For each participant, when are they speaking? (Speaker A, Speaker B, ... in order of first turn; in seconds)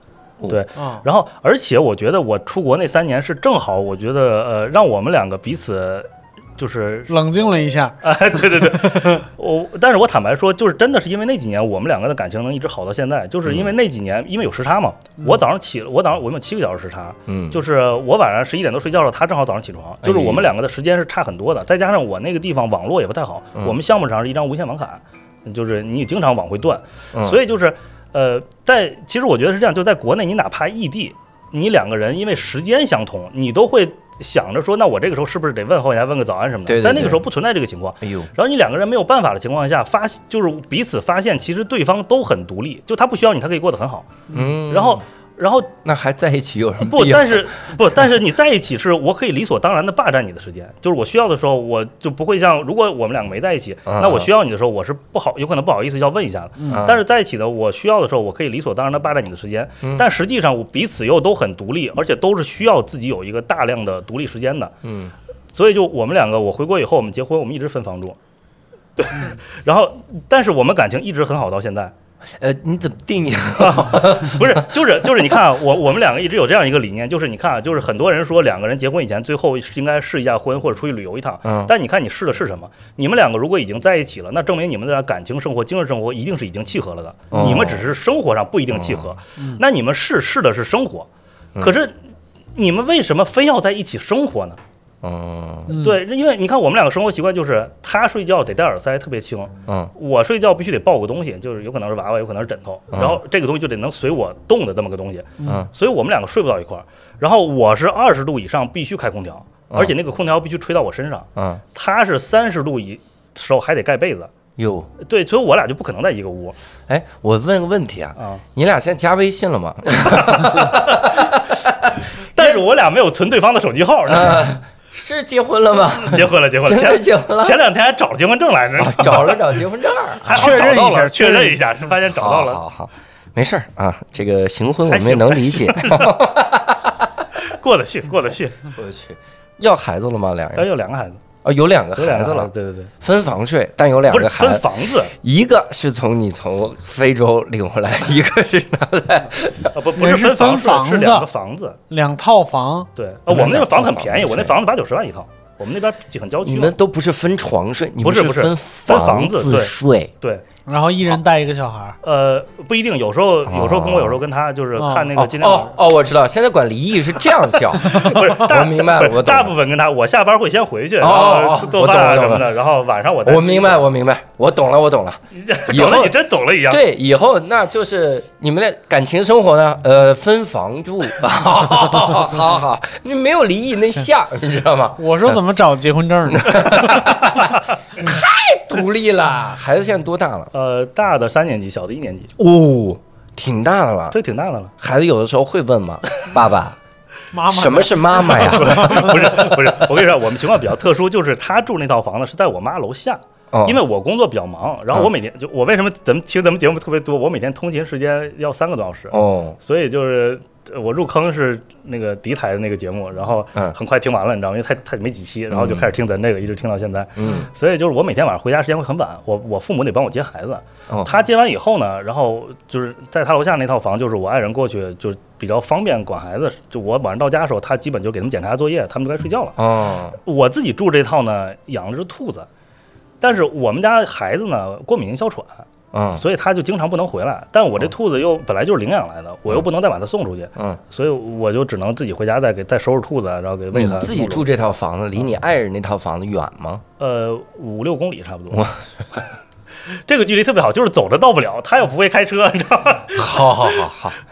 Speaker A: 0.5-7.1, 8.0-45.7, 46.8-64.7, 65.5-68.2, 69.0-71.9, 73.6-91.9, 92.5-94.6, 95.8-114.3, 115.0-116.5, 118.2-118.4, 120.5-120.8, 122.3-124.5, 126.0-129.6, 130.2-132.6, 134.9-136.3, 137.4-138.7, 140.5-141.2, 141.9-142.9, 144.1-145.1, 149.7-151.8, 152.9-156.7, 158.0-160.4, 162.0-165.7, 167.7-173.8, 175.3-176.8, 190.5-192.3, 194.1-194.7, 198.2-229.6, 230.2-232.5, 233.2-244.5, 247.0-248.7, 250.1-253.4
Speaker B: 0.8-1.0, 7.1-9.2, 56.6-56.9, 95.7-96.0, 130.3-131.6, 149.9-151.3, 151.9-152.9, 160.7-162.0, 164.8-165.1, 185.0-187.1, 197.3-199.2
Speaker C: 13.4-13.7, 17.3-17.6, 20.0-20.5, 27.1-27.4, 36.7-37.2, 38.0-38.3, 44.3-45.0, 45.8-47.5, 53.9-54.3, 56.7-57.0, 64.8-65.1, 72.3-74.7, 81.4-81.7, 87.3-87.9, 88.7-89.1, 95.0-95.8, 102.9-103.2, 109.7-110.0, 111.3-111.6, 114.6-114.9, 116.9-122.6, 124.1-127.6, 128.8-130.6, 132.1-137.1, 138.8-140.7, 141.4-149.7, 153.3-154.5, 156.4-160.1, 163.4-164.2, 165.1-169.5, 171.0-172.4, 173.2-176.2, 176.7-185.3, 186.3-190.5, 192.4-194.2, 194.8-196.8, 197.5-199.3, 203.5-203.8, 209.1-209.6, 215.5-215.9, 217.2-217.5, 220.9-221.2, 229.6-230.2, 235.9-236.2, 243.7-246.8, 248.5-249.2, 253.1-254.2